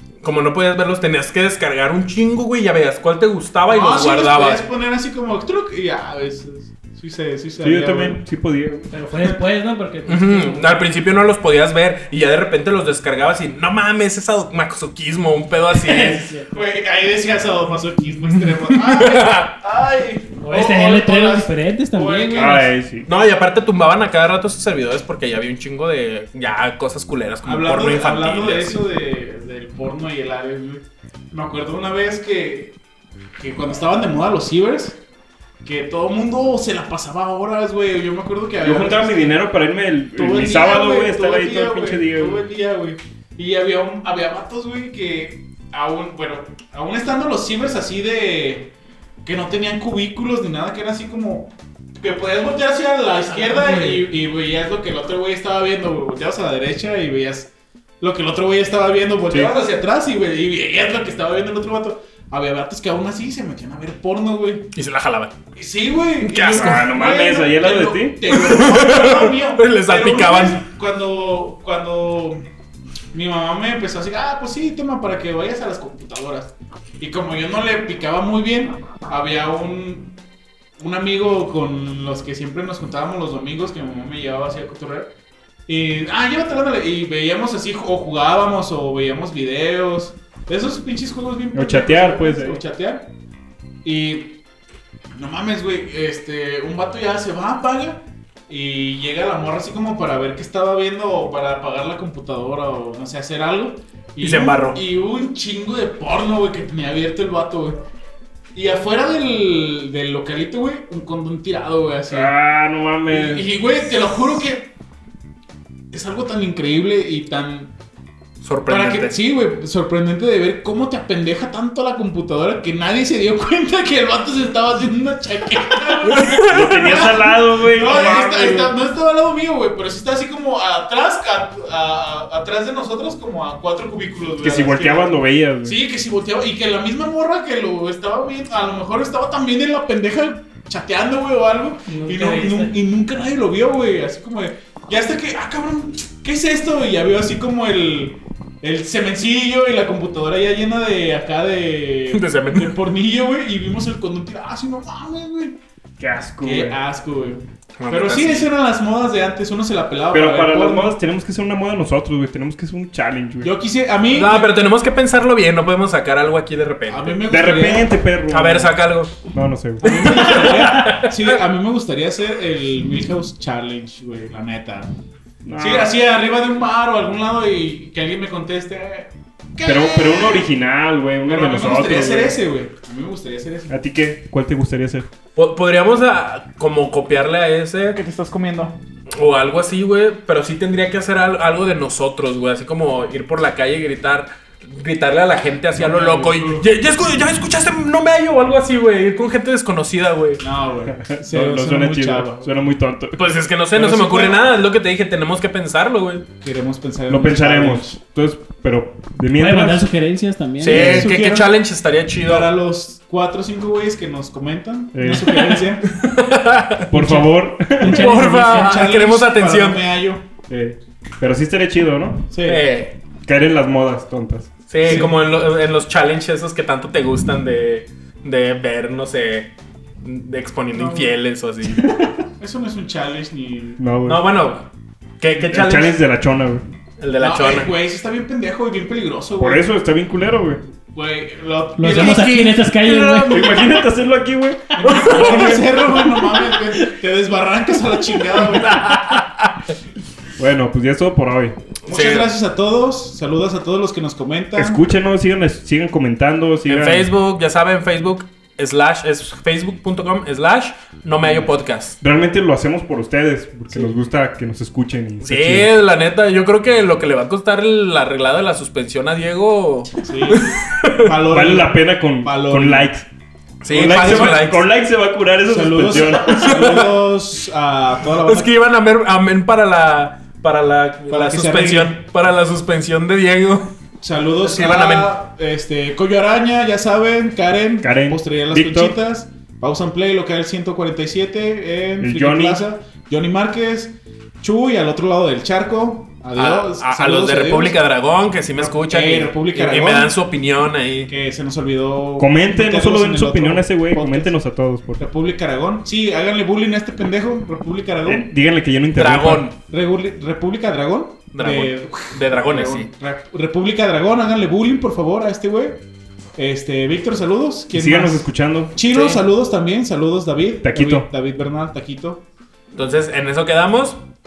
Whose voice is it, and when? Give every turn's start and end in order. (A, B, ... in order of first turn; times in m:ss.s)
0:00.2-0:04.6 A
0:03.7-0:08.2 B
0:07.6-0:08.9 C
0:08.9-0:10.8 D
0:10.0-0:16.3 A
0:15.7-0:16.6 D
0:16.5-0:22.6 B
0:18.4-0:19.5 A
0:20.4-0:22.7 D
0:22.3-0:23.1 C
0:23.0-0:28.8 A
0:27.4-0:32.7 B
0:33.4-0:35.0 B
0:35.6-0:39.4 B
0:38.6-0:42.4 C
0:40.2-1:04.7 B
0:53.3-0:54.0 D
0:59.3-0:59.5 C
1:04.7-1:05.3 A
1:05.5-1:12.4 B
1:06.2-1:06.8 A
1:06.5-1:08.2 C
1:08.3-1:10.6 A
1:13.1-1:20.2 B
1:20.8-1:25.1 B
1:25.7-1:33.1 B
1:31.5-1:32.6 C
1:33.8-1:34.4 B
1:35.1-1:47.8 B
1:44.2-1:44.8 A
1:48.5-1:52.3 B
1:52.1-1:53.5 C
1:53.1-1:54.7 B
1:55.9-1:57.7 B
1:58.4-1:59.2 A
1:58.7-2:35.6 B
2:06.0-2:07.1 A
2:06.4-2:08.7 C
2:14.4-2:15.8 C
2:21.9-2:22.7 D
2:32.1-2:32.7 A
2:36.0-2:36.8 C
2:36.4-2:40.9 B
2:37.8-2:38.5 A
2:40.1-2:43.5 C
2:43.4-2:44.5 B
2:44.1-2:47.2 A
2:46.9-2:47.9 B
2:47.3-2:50.4 C
2:48.3-2:49.2 A
2:49.8-2:54.9 B
2:49.9-2:51.3 A
2:55.4-2:55.9 C
2:55.6-3:00.5 B
2:59.6-3:02.4 C
3:01.2-3:03.7 B
3:03.7-3:05.1 C
3:05.4-3:08.0 A
3:07.9-3:08.8 B
3:09.2-3:20.4 A
3:15.8-3:16.6 B
3:20.4-3:22.5 B
3:20.9-3:23.3 C
3:23.2-3:26.2 A
3:23.7-3:24.4 B
3:26.4-3:28.0 B
3:27.1-3:29.9 C
3:29.4-3:30.9 D
3:30.6-3:32.5 A
3:30.7-3:31.5 B
3:30.7-3:31.1 C
3:32.2-3:35.9 B
3:34.9-3:35.5 C
3:35.5-3:36.9 A
3:36.9-3:38.0 C
3:36.9-3:37.3 B
3:37.0-3:37.2 D
3:37.8-3:39.8 A
3:37.8-3:40.2 B
3:37.8-3:38.8 D
3:40.5-3:42.3 C
3:42.3-3:42.6 B
3:42.4-3:43.0 A
3:43.2-3:45.1 C
3:44.7-3:52.0 A
3:44.8-3:45.1 B
3:50.7-3:51.1 B
3:52.4-3:53.8 B
3:53.8-3:54.2 C
3:54.0-3:54.7 A
3:55.2-3:56.0 A
3:55.5-3:56.6 C
3:57.0-3:57.7 A
3:57.2-3:59.7 B
3:59.4-4:00.6 C
4:00.9-4:03.8 B
4:01.8-4:03.5 D
4:01.8-4:02.7 A
4:03.3-4:05.6 C
4:04.8-4:09.2 B
4:04.8-4:05.7 A
4:08.3-4:09.5 A
4:10.4-4:11.6 C
4:11.8-4:12.3 A
4:11.9-4:14.8 B
4:14.5-4:17.1 C
4:16.7-4:22.0 A
4:22.0-4:25.7 C
4:25.2-4:31.1 A
4:30.0-4:32.9 B
4:31.3-4:33.1 C
4:33.6-4:34.6 A
4:33.7-4:36.9 C
4:33.7-4:34.4 B
4:35.4-4:38.5 B
4:36.2-4:37.0 A
4:38.2-4:43.6 A
4:41.1-4:42.0 B
4:44.0-4:57.8 B
4:44.4-4:45.1 A
4:47.8-4:49.0 C
4:52.0-4:52.6 C
4:56.4-5:01.1 A
4:58.6-5:00.1 B
5:01.1-5:04.3 B
5:02.2-5:05.0 C
5:05.0-5:08.3 B
5:08.0-5:09.5 C
5:09.0-5:09.5 A
5:09.7-5:15.8 B
5:11.3-5:12.9 A
5:16.4-5:22.2 B
5:17.7-5:18.8 C
5:18.9-5:19.2 A
5:20.6-5:21.1 C
5:22.7-5:24.0 A